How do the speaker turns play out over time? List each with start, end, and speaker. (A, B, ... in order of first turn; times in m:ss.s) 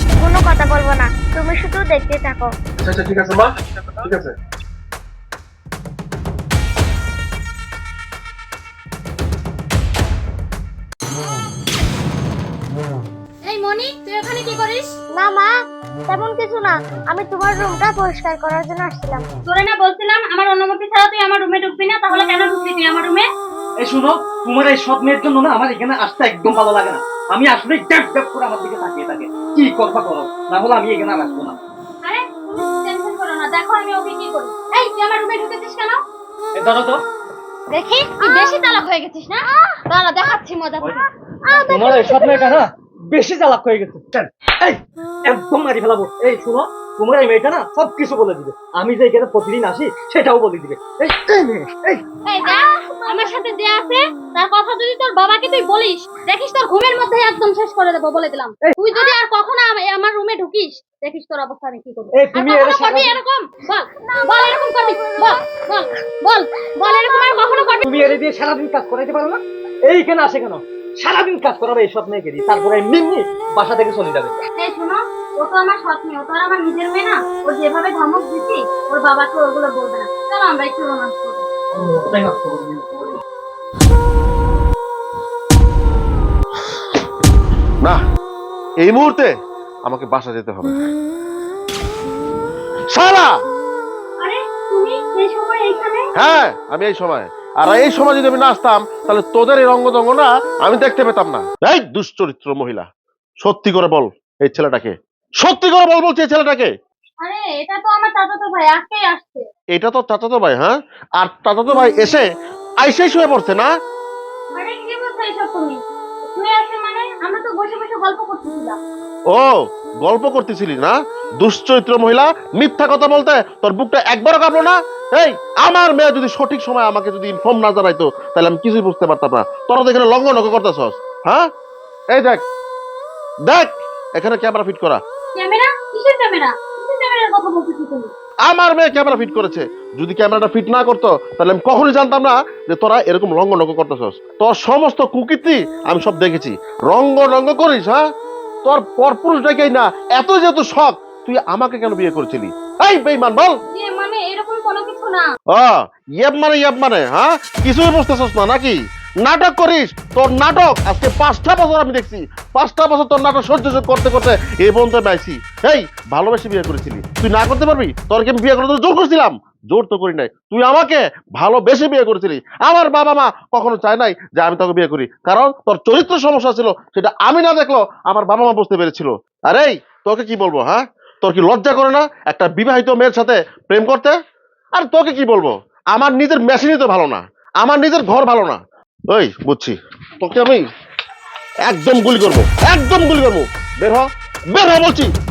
0:00.2-0:02.5 A
0:02.8-0:04.3 B
0:13.4-0:14.9 C
0:15.2-0:15.5 A
0:16.1-0:19.2 A
0:19.4-0:23.3 C
0:23.8-0:31.6 D
0:32.0-0:36.0 C
0:36.5-0:37.0 D
0:37.7-0:38.8 A
0:38.2-0:40.9 C
0:39.5-0:42.6 A
0:41.6-0:52.0 D
0:52.2-1:07.9 C
0:52.4-0:53.4 A
1:02.1-1:03.2 D
1:04.0-1:05.4 A
1:06.8-1:08.1 A
1:07.8-1:14.4 D
1:14.6-1:21.5 C
1:21.7-1:23.2 D
1:28.8-1:29.3 B
1:29.9-1:30.8 B
1:32.9-1:33.3 B
1:34.2-1:36.1 C
1:36.2-1:42.8 B
1:43.4-1:46.7 B
1:47.2-1:49.4 C
1:49.7-1:52.2 B
1:52.8-1:53.7 B
1:54.5-1:58.8 C
1:59.3-2:11.4 B
2:12.1-2:12.4 B
2:13.4-2:15.0 B
2:15.3-2:18.1 C
2:18.4-2:28.0 B
2:28.6-2:33.5 B
2:33.7-2:35.3 C
2:35.5-3:04.1 B
3:04.8-3:08.6 B
3:09.1-3:10.6 B
3:11.6-3:15.1 B